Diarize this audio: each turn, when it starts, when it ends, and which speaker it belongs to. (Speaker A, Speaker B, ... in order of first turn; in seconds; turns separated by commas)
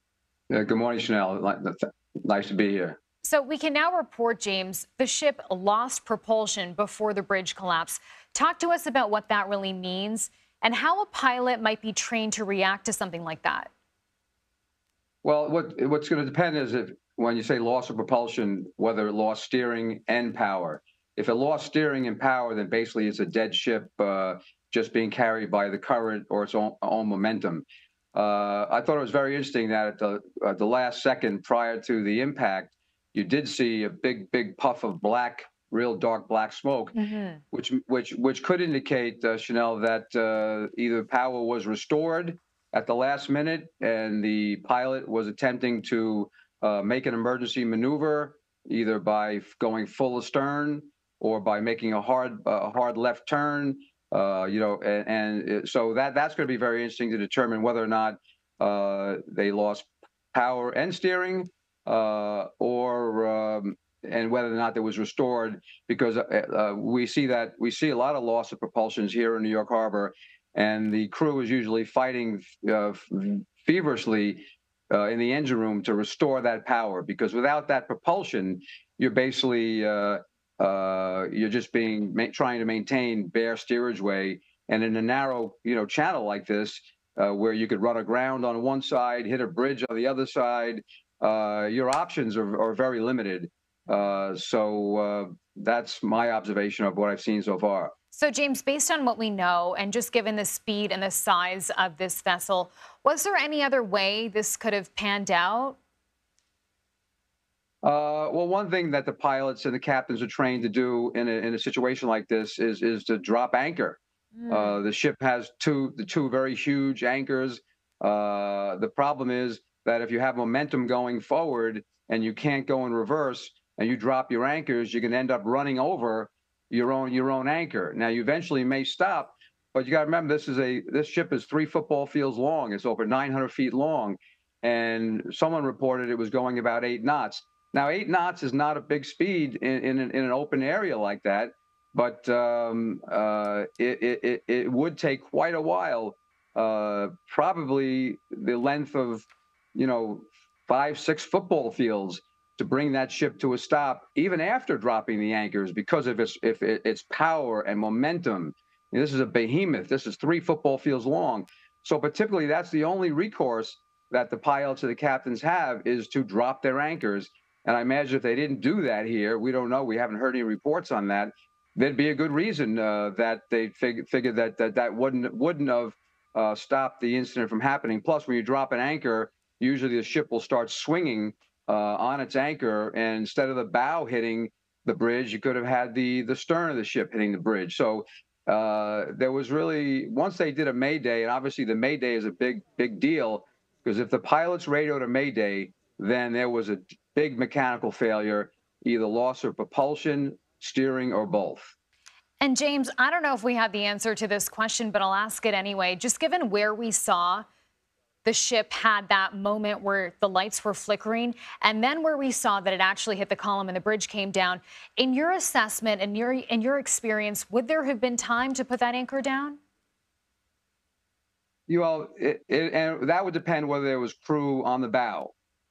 Speaker A: 0.5-3.0, Speaker B: 3.2-13.7, Speaker A: 15.2-37.0, Speaker B: 37.0-37.4, Speaker A: 37.5-97.9, Speaker B: 98.1-105.8, Speaker A: 107.8-201.7, Speaker B: 114.4-114.7, Speaker B: 202.4-207.4, Speaker B: 208.2-219.6, Speaker A: 221.7-225.3